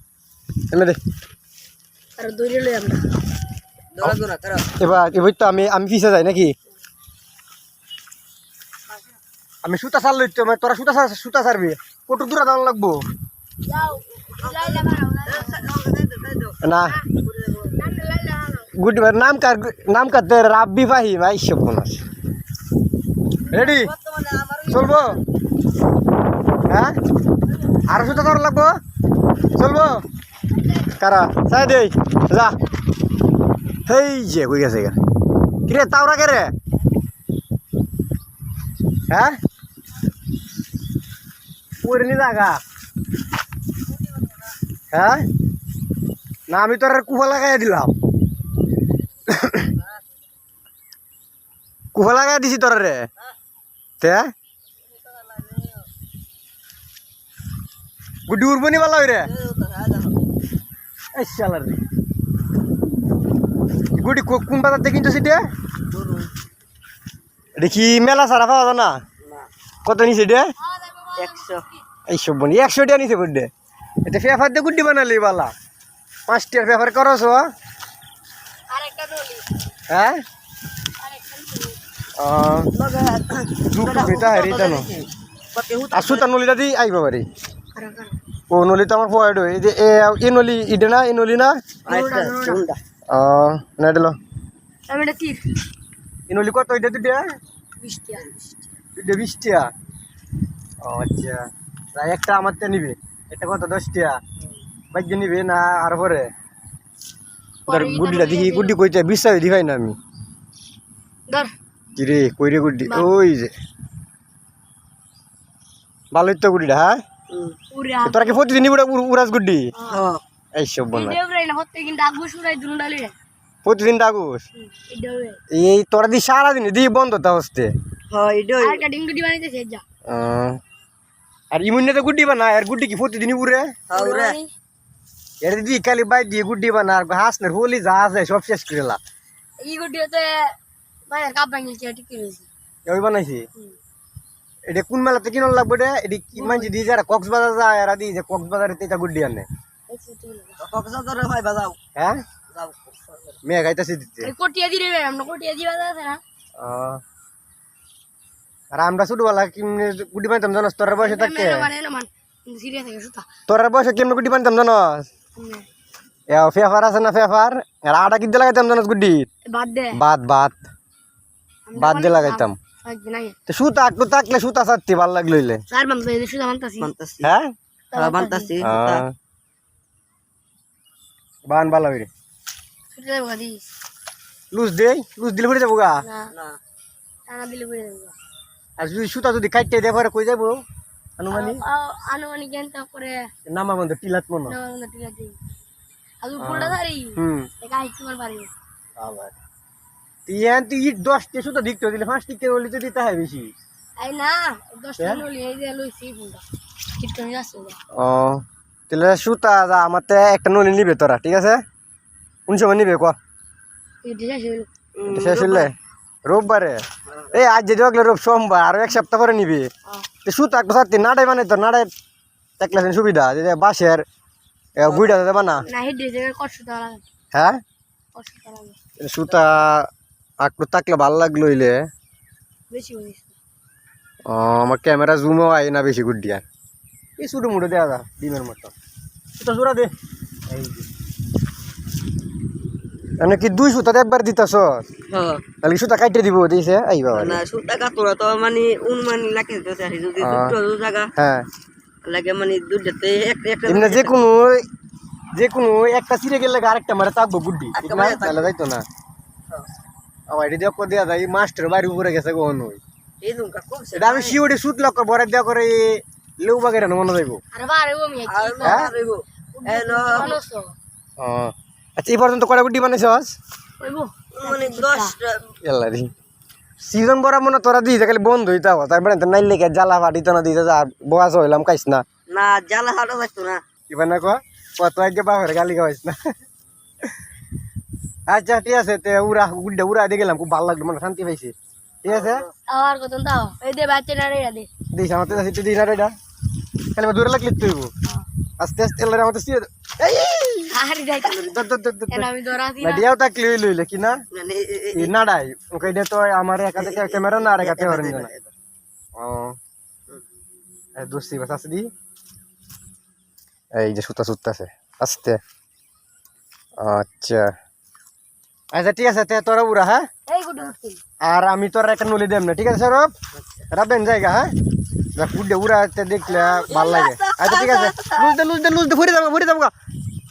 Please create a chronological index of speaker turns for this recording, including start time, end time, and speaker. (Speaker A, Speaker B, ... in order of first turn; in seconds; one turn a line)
Speaker A: 0.7-1.0
Speaker B: 2.2-3.1
Speaker C: 3.9-4.7
Speaker A: 4.8-6.5
Speaker A: 9.6-13.0
Speaker B: 13.7-15.7
Speaker C: 14.4-18.0
Speaker A: 16.6-17.0
Speaker B: 16.8-17.1
Speaker B: 17.8-18.7
Speaker A: 18.7-22.0
Speaker A: 23.5-23.9
Speaker C: 23.5-25.2
Speaker A: 24.7-25.2
Speaker A: 26.7-26.9
Speaker A: 27.9-28.8
Speaker A: 29.6-30.0
Speaker A: 30.8-32.5
Speaker A: 33.9-35.0
Speaker A: 35.6-36.5
Speaker A: 39.1-39.4
Speaker A: 41.8-42.6
Speaker A: 44.9-45.3
Speaker A: 46.5-47.9
Speaker A: 49.3-49.7
Speaker A: 51.9-53.0
Speaker A: 54.0-54.3
Speaker C: 54.8-55.9
Speaker A: 58.3-59.3
Speaker C: 59.2-60.2
Speaker A: 61.1-61.8
Speaker A: 63.9-65.5
Speaker C: 65.9-66.3
Speaker A: 67.6-69.0
Speaker C: 69.2-69.5
Speaker A: 69.8-70.5
Speaker B: 70.6-71.6
Speaker C: 71.1-71.7
Speaker A: 72.1-73.5
Speaker A: 74.0-75.5
Speaker A: 76.3-77.5
Speaker B: 78.7-79.4
Speaker A: 79.9-80.2
Speaker B: 81.0-81.8
Speaker A: 82.2-82.7
Speaker C: 82.7-86.3
Speaker A: 83.6-84.9
Speaker A: 85.9-87.2
Speaker B: 87.7-88.2
Speaker A: 88.5-91.6
Speaker B: 91.8-92.6
Speaker C: 91.8-92.8
Speaker A: 93.1-94.2
Speaker B: 94.9-95.6
Speaker A: 96.3-97.3
Speaker B: 97.8-98.3
Speaker A: 99.0-99.7
Speaker A: 100.8-104.2
Speaker A: 104.9-106.3
Speaker B: 107.7-108.8
Speaker A: 107.7-110.0
Speaker A: 112.0-113.5
Speaker A: 116.1-117.0
Speaker C: 117.3-117.6
Speaker B: 117.7-118.4
Speaker A: 118.0-119.7
Speaker B: 119.7-120.0
Speaker C: 119.8-120.2
Speaker A: 120.5-121.2
Speaker B: 120.9-123.1
Speaker A: 123.6-124.4
Speaker B: 124.5-125.4
Speaker A: 125.5-127.7
Speaker C: 128.1-128.8
Speaker B: 128.6-129.8
Speaker A: 130.1-130.6
Speaker A: 131.5-133.7
Speaker C: 133.9-134.4
Speaker B: 133.9-134.5
Speaker A: 135.4-139.0
Speaker B: 139.6-140.6
Speaker B: 141.1-142.5
Speaker A: 142.8-143.4
Speaker A: 144.7-149.4
Speaker B: 146.4-146.7
Speaker B: 149.9-150.6
Speaker C: 150.6-151.8
Speaker A: 151.9-152.2
Speaker C: 152.5-153.3
Speaker A: 153.4-154.3
Speaker B: 154.2-156.2
Speaker A: 156.6-157.0
Speaker A: 158.7-161.7
Speaker B: 161.0-163.2
Speaker A: 163.5-165.1
Speaker B: 165.3-165.6
Speaker A: 166.3-169.3
Speaker B: 169.4-170.0
Speaker A: 169.9-170.7
Speaker B: 171.7-173.3
Speaker A: 171.8-172.6
Speaker A: 173.5-175.6
Speaker B: 175.7-176.9
Speaker C: 176.8-177.3
Speaker A: 177.2-177.5
Speaker B: 177.9-178.5
Speaker C: 177.9-179.0
Speaker A: 178.6-179.1
Speaker A: 181.5-182.1
Speaker B: 182.9-183.6
Speaker A: 184.5-186.0
Speaker B: 186.0-186.3
Speaker C: 186.3-186.6
Speaker B: 187.3-188.1
Speaker A: 188.8-190.6
Speaker A: 191.2-191.6
Speaker B: 191.3-193.3
Speaker A: 193.5-194.6
Speaker B: 194.5-195.4
Speaker B: 196.2-198.5
Speaker A: 196.4-197.5
Speaker A: 199.0-199.4
Speaker A: 200.3-203.5
Speaker B: 204.0-206.4
Speaker A: 205.0-205.2
Speaker B: 207.0-207.8
Speaker A: 207.9-211.6
Speaker A: 212.5-213.2
Speaker B: 214.0-214.7
Speaker C: 214.9-215.7
Speaker A: 215.1-215.7
Speaker A: 216.2-216.8
Speaker C: 217.1-217.3
Speaker A: 217.3-219.7
Speaker A: 220.2-221.9
Speaker A: 222.6-224.0
Speaker A: 224.8-225.7
Speaker C: 224.8-225.6
Speaker B: 225.6-227.0
Speaker A: 227.3-227.6
Speaker B: 228.1-228.8
Speaker A: 229.0-229.9
Speaker A: 230.4-231.9
Speaker B: 232.7-233.3
Speaker A: 234.2-236.4
Speaker A: 237.2-238.7
Speaker A: 239.4-239.9
Speaker A: 240.5-240.9
Speaker A: 243.2-244.9
Speaker C: 245.1-245.4
Speaker A: 245.6-247.4
Speaker C: 247.1-251.1
Speaker A: 250.2-250.6
Speaker A: 251.2-251.4
Speaker C: 252.0-254.1
Speaker A: 253.7-254.6
Speaker A: 255.3-258.8
Speaker C: 257.7-258.5
Speaker A: 260.3-262.8
Speaker C: 263.2-264.4
Speaker A: 263.9-267.4
Speaker B: 267.5-270.7
Speaker C: 268.3-270.4
Speaker A: 271.2-273.3
Speaker B: 273.8-275.1
Speaker C: 274.3-275.5
Speaker A: 275.6-276.1
Speaker A: 276.8-282.0
Speaker C: 282.3-283.6
Speaker A: 283.9-286.2
Speaker A: 288.3-291.5
Speaker A: 292.0-292.4
Speaker C: 292.0-292.5
Speaker B: 292.7-294.7
Speaker A: 294.9-296.1
Speaker A: 296.9-297.9
Speaker A: 298.6-304.2
Speaker B: 300.7-301.5
Speaker B: 302.1-303.1
Speaker C: 304.3-305.1
Speaker A: 304.9-308.3
Speaker C: 306.8-308.5
Speaker A: 309.2-309.5
Speaker A: 311.0-311.9
Speaker A: 313.7-315.4
Speaker A: 316.8-317.5
Speaker A: 318.7-320.1
Speaker B: 320.3-321.0
Speaker A: 321.2-323.1
Speaker A: 323.7-324.5
Speaker A: 325.1-329.7
Speaker C: 326.2-328.3